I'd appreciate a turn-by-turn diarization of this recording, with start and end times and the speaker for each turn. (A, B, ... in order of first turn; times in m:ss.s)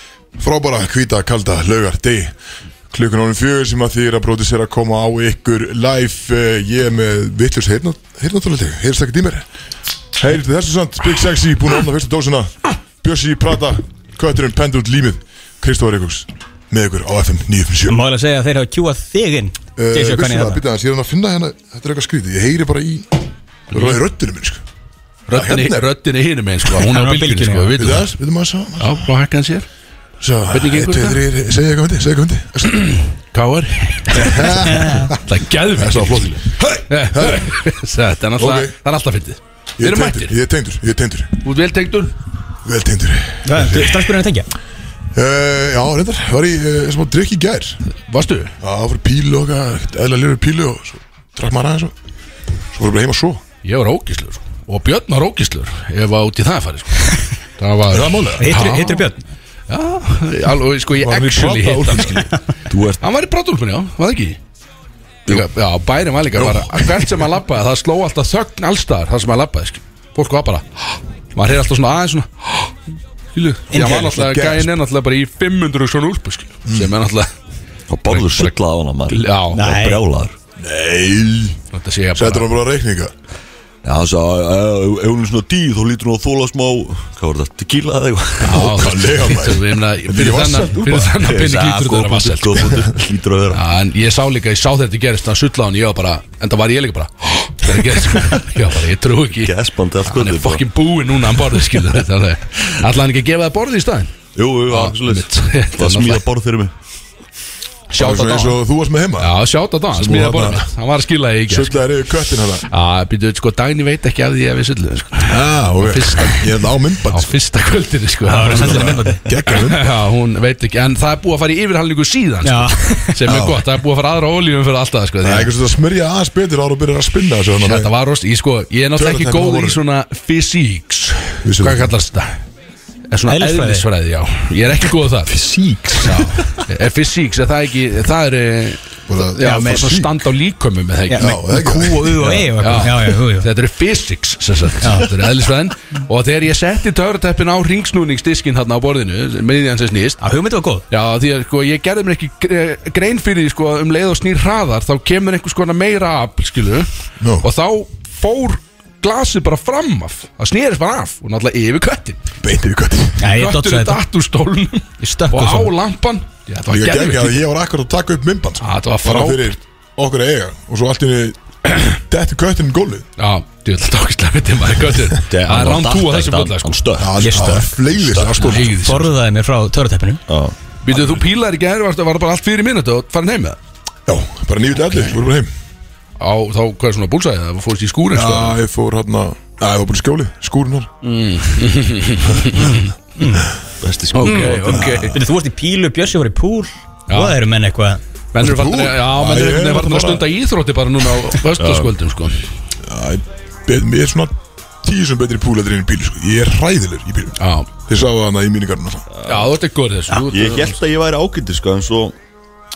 0:00.4-0:02.3 A
0:02.9-0:09.4 A
0:10.2-0:18.0 A
0:17.9-0:20.6 B
0:19.8-0:24.6 A
0:23.7-0:24.0 C
0:25.3-0:28.1 C
0:25.3-0:25.9 A
0:26.8-0:27.7 B
0:27.8-0:29.0 A
0:28.8-0:29.7 C
0:30.2-0:33.0 A
0:30.5-0:31.2 C
0:32.6-0:40.3 C
0:34.1-0:35.2 A
0:34.7-0:35.1 B
0:35.7-0:37.6 A
0:38.4-0:38.7 A
0:39.8-0:41.4 A
0:41.4-0:42.2 C
0:42.6-0:44.1 A
0:43.4-0:44.5 B
0:45.1-0:47.8 A
0:48.1-0:48.5 C
0:48.6-0:51.9 A
0:52.7-0:53.4 A
0:53.6-0:59.1 C
0:57.9-0:58.5 A
0:58.4-0:59.2 B
0:59.7-1:02.3 C
1:00.9-1:02.3 A
1:02.7-1:03.0 D
1:03.0-1:04.4 C
1:05.2-1:12.7 C
1:06.3-1:07.3 A
1:13.3-1:17.3 C
1:13.7-1:14.7 A
1:13.7-1:14.1 B
1:16.6-1:16.9 A
1:17.9-1:20.3 D
1:18.0-1:18.5 C
1:19.1-1:19.6 C
1:19.5-1:20.0 B
1:20.6-1:21.6 A
1:21.7-1:22.5 C
1:22.1-1:23.1 A
1:23.8-1:28.7 D
1:28.4-1:32.9 C
1:28.5-1:31.2 A
1:31.2-1:33.6 D
1:33.5-1:44.2 C
1:39.4-1:40.6 D
1:44.3-1:46.7 D
1:44.7-1:46.2 C
1:47.9-1:48.6 C
1:48.0-1:49.4 A
1:49.2-1:51.8 C
1:49.9-1:50.7 A
1:51.5-1:52.7 A
1:52.7-1:56.6 C
1:55.2-1:57.3 A
1:57.1-2:05.5 C
1:58.2-1:59.2 B
1:58.4-2:00.0 A
2:02.4-2:03.2 B
2:03.2-2:03.6 A
2:05.2-2:07.9 A
2:07.6-2:12.4 C
2:09.0-2:09.8 A
2:11.4-2:11.9 A
2:13.1-2:15.4 C
2:13.3-2:13.9 B
2:15.3-2:16.5 A
2:16.0-2:21.3 C
2:19.1-2:20.1 A
2:19.4-2:20.0 B
2:21.1-2:23.5 B
2:21.1-2:22.8 A
2:22.6-2:30.2 C
2:24.8-2:25.1 B
2:30.2-2:30.8 B
2:30.9-2:42.2 C
2:37.2-2:37.5 A
2:42.4-2:43.3 A
2:43.2-2:44.0 B
2:43.3-2:47.4 C
2:45.0-2:45.7 B
2:46.7-2:53.1 A
2:48.6-2:49.6 C
2:53.2-2:56.8 C
2:55.3-2:58.4 D
2:57.0-2:58.8 A
2:57.2-2:57.6 B
2:58.2-2:59.1 C
2:58.6-3:00.2 B
3:00.3-3:00.6 D
3:00.8-3:03.6 C
3:04.1-3:05.5 A
3:06.2-3:08.6 C
3:08.1-3:10.9 A
3:11.0-3:12.9 C
3:12.6-3:13.5 B
3:13.8-3:15.0 D
3:14.1-3:15.1 C
3:14.3-3:18.0 B
3:14.7-3:15.1 A
3:17.1-3:17.4 C
3:18.3-3:22.5 C
3:18.4-3:20.3 A
3:21.6-3:21.9 D
3:22.8-3:29.0 A
3:27.4-3:27.7 C
3:29.1-3:29.5 D
3:29.2-3:30.8 C
3:30.2-3:32.2 D